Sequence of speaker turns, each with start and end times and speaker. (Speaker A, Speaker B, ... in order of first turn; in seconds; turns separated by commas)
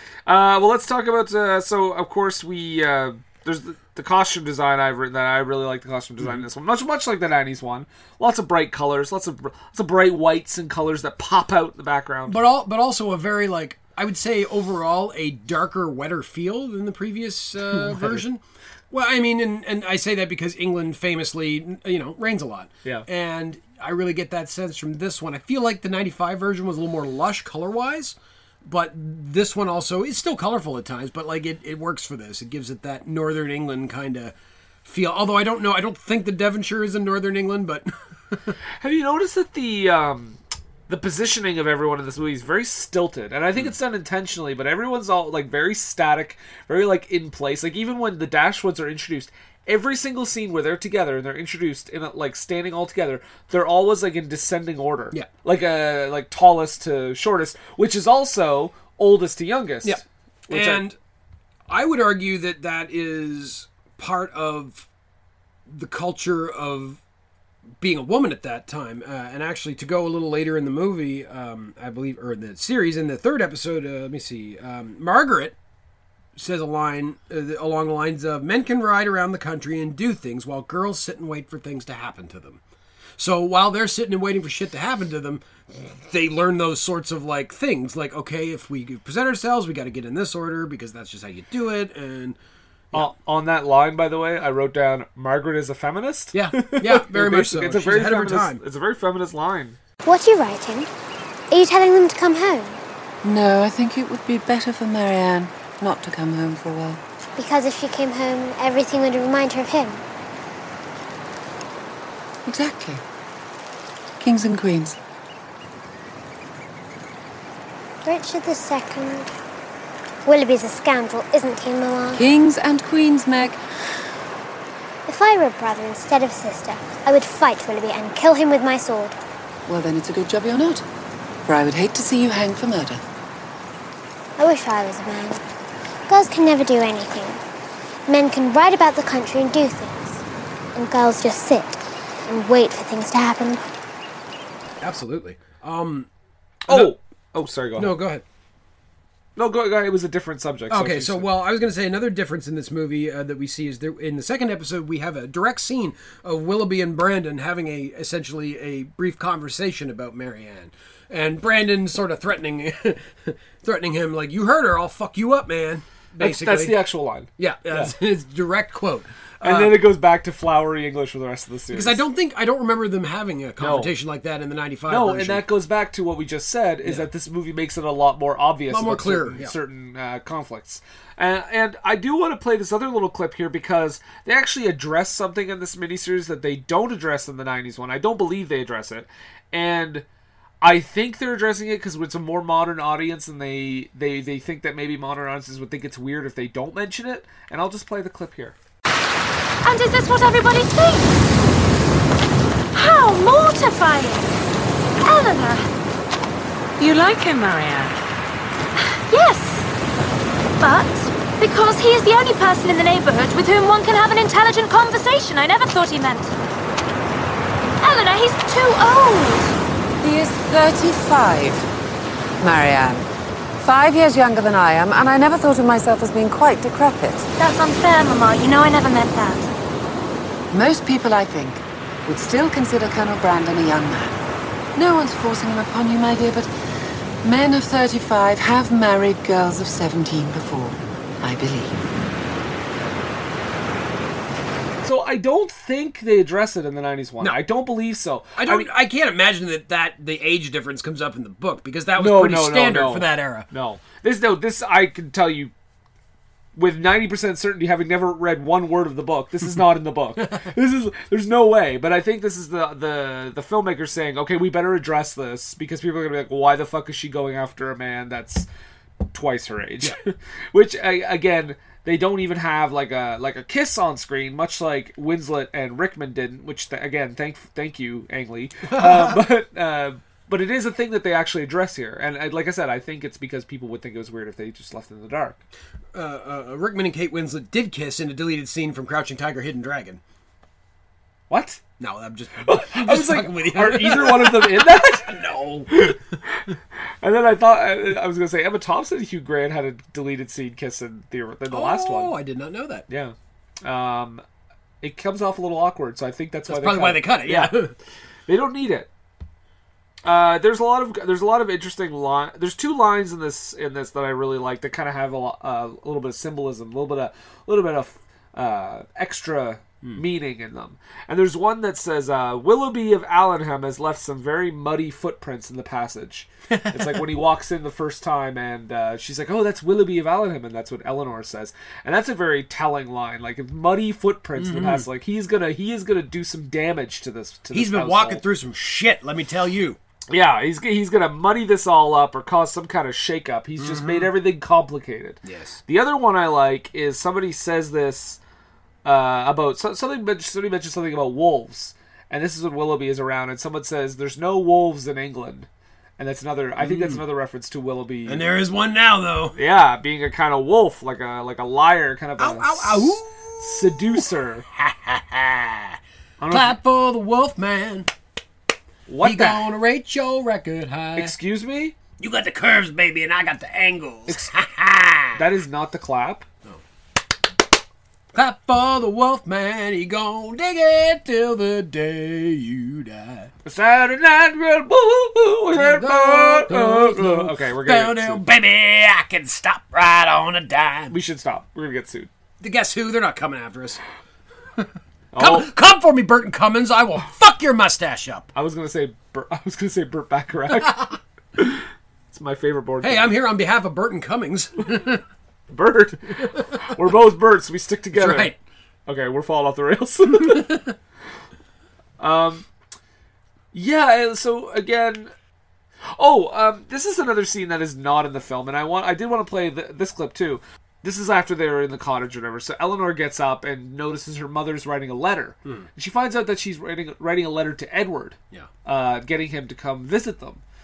Speaker A: 0.2-12.4, Speaker B: 12.3-34.3, Speaker A: 17.7-18.2, Speaker B: 34.8-38.6, Speaker A: 38.8-60.8, Speaker B: 59.8-61.0, Speaker B: 61.7-64.9, Speaker B: 65.7-67.0, Speaker B: 67.8-75.5, Speaker B: 76.3-82.6, Speaker B: 83.2-92.4, Speaker A: 92.9-99.8, Speaker B: 96.3-98.6, Speaker C: 100.0-100.9, Speaker C: 101.5-102.8, Speaker D: 103.2-107.0, Speaker C: 107.4-110.0, Speaker D: 112.5-113.0, Speaker D: 114.2-115.0, Speaker C: 118.0-119.3, Speaker C: 120.2-122.2, Speaker D: 122.1-123.6, Speaker C: 125.1-129.2, Speaker D: 129.7-130.8, Speaker D: 131.4-133.0, Speaker C: 134.4-135.4, Speaker C: 136.1-137.4, Speaker C: 138.1-140.2, Speaker C: 140.7-143.6, Speaker B: 144.8-146.1, Speaker A: 146.7-148.0, Speaker B: 146.7-146.9, Speaker B: 147.8-148.2, Speaker A: 149.3-151.3, Speaker B: 150.7-166.8, Speaker A: 166.2-167.9, Speaker B: 167.4-169.8, Speaker A: 169.4-172.0, Speaker B: 171.7-175.4, Speaker A: 173.6-173.9, Speaker A: 174.9-190.0, Speaker B: 178.7-179.5, Speaker A: 190.6-198.6, Speaker E: 199.6-201.3, Speaker E: 202.7-204.4, Speaker E: 205.0-205.7, Speaker E: 206.8-207.9, Speaker E: 208.7-209.7, Speaker E: 210.6-216.4, Speaker E: 217.8-219.6, Speaker D: 220.0-221.7, Speaker D: 222.4-223.1, Speaker D: 223.6-227.3, Speaker E: 227.4-229.5, Speaker D: 230.5-234.2, Speaker D: 234.8-236.5, Speaker D: 237.2-241.8, Speaker A: 244.8-248.7, Speaker B: 248.3-253.5, Speaker A: 251.9-255.5, Speaker A: 256.5-268.5, Speaker A: 269.1-285.4, Speaker B: 278.7-279.2, Speaker B: 285.9-290.0, Speaker A: 291.3-291.6, Speaker B: 291.8-295.9, Speaker A: 292.4-296.4, Speaker A: 297.0-302.1, Speaker B: 301.5-302.9, Speaker A: 302.9-304.2, Speaker A: 304.8-307.6, Speaker B: 306.5-307.7, Speaker A: 308.3-308.9, Speaker A: 310.0-338.2, Speaker B: 326.5-327.0, Speaker B: 334.4-334.9, Speaker B: 337.5-339.8, Speaker A: 340.1-348.2, Speaker B: 343.6-344.1, Speaker B: 345.2-345.6, Speaker A: 348.8-358.3, Speaker B: 356.6-357.0, Speaker B: 358.1-359.4, Speaker A: 359.4-364.4, Speaker B: 362.2-365.8, Speaker A: 366.2-366.6, Speaker B: 366.3-367.9, Speaker A: 368.9-369.5, Speaker B: 369.0-371.1, Speaker A: 370.9-371.8, Speaker B: 372.0-375.2, Speaker A: 375.1-376.3, Speaker B: 378.1-383.3, Speaker A: 383.4-388.2, Speaker B: 385.5-390.9, Speaker A: 390.9-392.1, Speaker B: 392.4-393.8, Speaker B: 394.6-398.3, Speaker A: 395.1-395.5, Speaker A: 398.3-403.1, Speaker B: 402.8-405.0, Speaker A: 405.5-408.3, Speaker B: 407.9-408.4, Speaker A: 408.9-410.6, Speaker A: 412.0-412.5, Speaker A: 413.5-415.1, Speaker A: 415.8-430.4